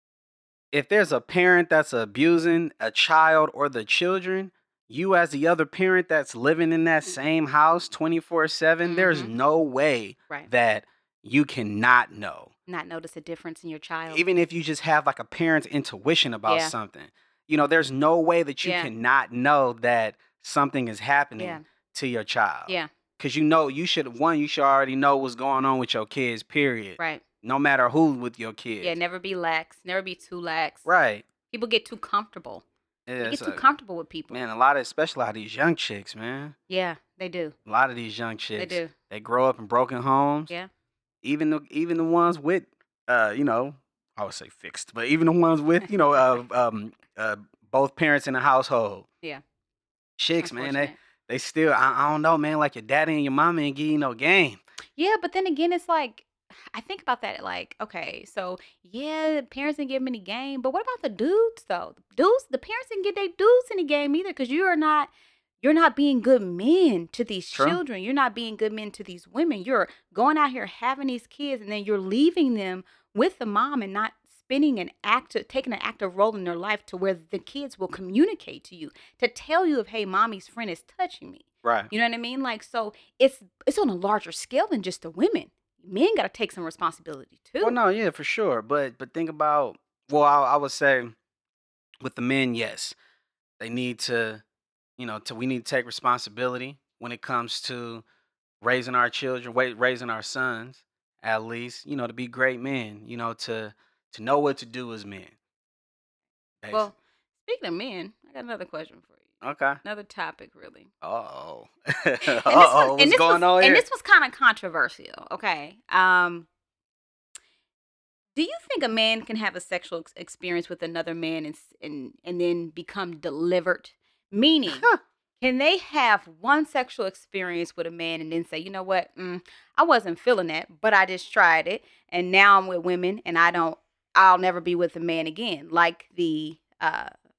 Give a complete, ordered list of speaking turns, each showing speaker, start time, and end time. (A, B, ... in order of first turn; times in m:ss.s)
0:00.7-0:12.5 A
0:08.8-0:09.3 B
0:12.7-0:14.2 B
0:14.1-0:29.0 A
0:16.5-0:16.7 B
0:18.6-0:18.9 B
0:21.4-0:21.6 B
0:27.0-0:27.2 B
0:28.8-0:30.9 B
0:30.8-0:31.3 A
0:31.5-0:32.6 B
0:33.1-0:33.7 A
0:33.2-0:34.4 B
0:34.3-0:36.5 A
0:36.7-0:37.5 B
0:37.6-0:40.5 A
0:38.6-0:38.9 B
0:41.2-0:49.0 A
0:50.2-0:54.6 A
0:50.4-0:50.9 B
0:55.0-1:05.1 B
1:05.6-1:27.8 B
1:07.5-1:07.8 A
1:21.6-1:21.9 A
1:27.6-1:31.1 A
1:32.0-1:32.9 A
1:33.6-1:34.4 A
1:35.0-1:38.0 A
1:38.6-1:45.3 A
1:46.6-1:46.9 A
1:46.7-1:49.2 B
1:49.4-1:49.8 A
1:49.8-1:50.9 B
1:51.0-1:53.8 A
1:52.2-1:56.5 B
1:58.3-2:04.9 B
2:04.7-2:05.0 A
2:05.4-2:17.1 B